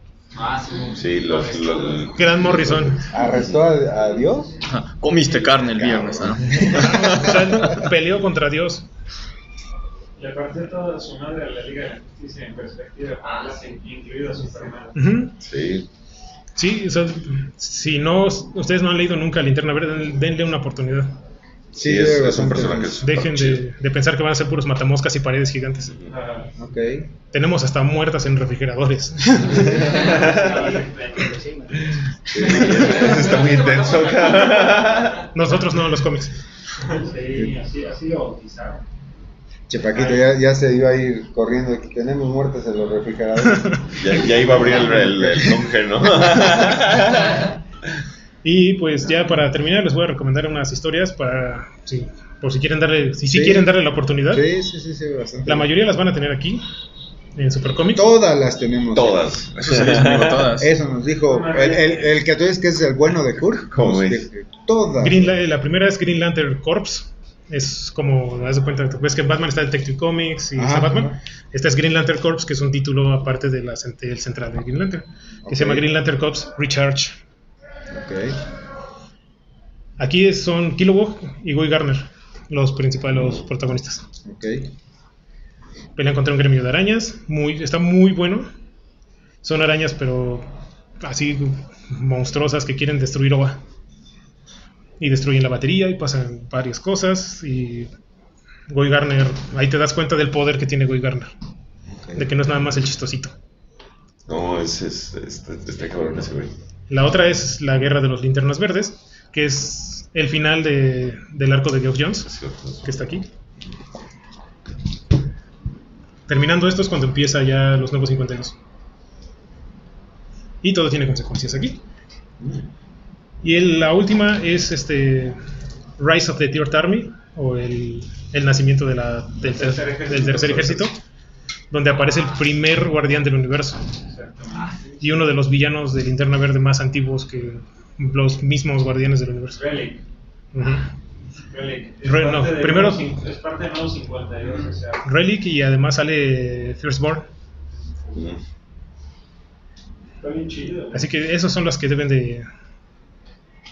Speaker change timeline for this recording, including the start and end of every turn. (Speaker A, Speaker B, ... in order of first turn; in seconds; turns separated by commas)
Speaker A: 0.3-2.1, Speaker B: 0.9-3.6, Speaker C: 2.2-3.0, Speaker D: 3.1-4.5, Speaker E: 4.7-7.7, Speaker D: 5.6-7.7, Speaker C: 6.7-8.9, Speaker F: 10.2-15.0, Speaker C: 14.9-15.3, Speaker B: 15.4-15.9, Speaker C: 16.6-21.1, Speaker D: 21.7-23.1, Speaker B: 21.8-23.6, Speaker C: 23.0-26.0, Speaker F: 26.1-26.5, Speaker D: 26.6-27.1, Speaker C: 27.3-29.7, Speaker B: 29.5-30.7, Speaker F: 29.9-31.4, Speaker D: 32.3-33.5, Speaker B: 32.4-35.3, Speaker A: 33.0-35.0, Speaker C: 35.3-36.4, Speaker F: 36.9-38.8, Speaker D: 39.7-45.7, Speaker F: 39.9-40.3, Speaker B: 44.0-47.4, Speaker C: 48.4-54.5, Speaker D: 53.3-53.7, Speaker D: 54.3-55.7, Speaker C: 55.5-56.6, Speaker C: 57.4-58.1, Speaker D: 58.0-59.3, Speaker B: 59.0-60.5, Speaker E: 59.6-60.7, Speaker D: 60.6-65.4, Speaker F: 61.2-62.1, Speaker B: 63.7-64.3, Speaker C: 65.0-77.2, Speaker D: 70.6-71.2, Speaker D: 75.5-75.9, Speaker D: 77.9-78.4, Speaker C: 80.0-84.0, Speaker D: 84.2-84.7, Speaker C: 86.0-88.5, Speaker C: 89.4-90.5, Speaker C: 91.0-93.6, Speaker C: 95.0-97.9, Speaker C: 98.7-101.3, Speaker D: 101.9-102.3, Speaker C: 102.2-103.3, Speaker B: 104.3-106.5, Speaker C: 106.9-112.3, Speaker B: 112.2-112.9, Speaker C: 112.8-113.3, Speaker C: 116.3-118.5, Speaker C: 120.6-121.8, Speaker C: 123.4-125.4, Speaker C: 126.0-131.0, Speaker F: 129.4-130.6, Speaker B: 130.2-130.8, Speaker C: 131.7-133.8, Speaker F: 134.1-134.8, Speaker C: 135.0-139.6, Speaker F: 139.5-140.0, Speaker C: 140.5-140.9, Speaker F: 141.5-145.1, Speaker C: 142.0-143.2, Speaker C: 145.0-147.3, Speaker B: 148.2-148.4, Speaker F: 150.2-151.1, Speaker C: 150.9-152.5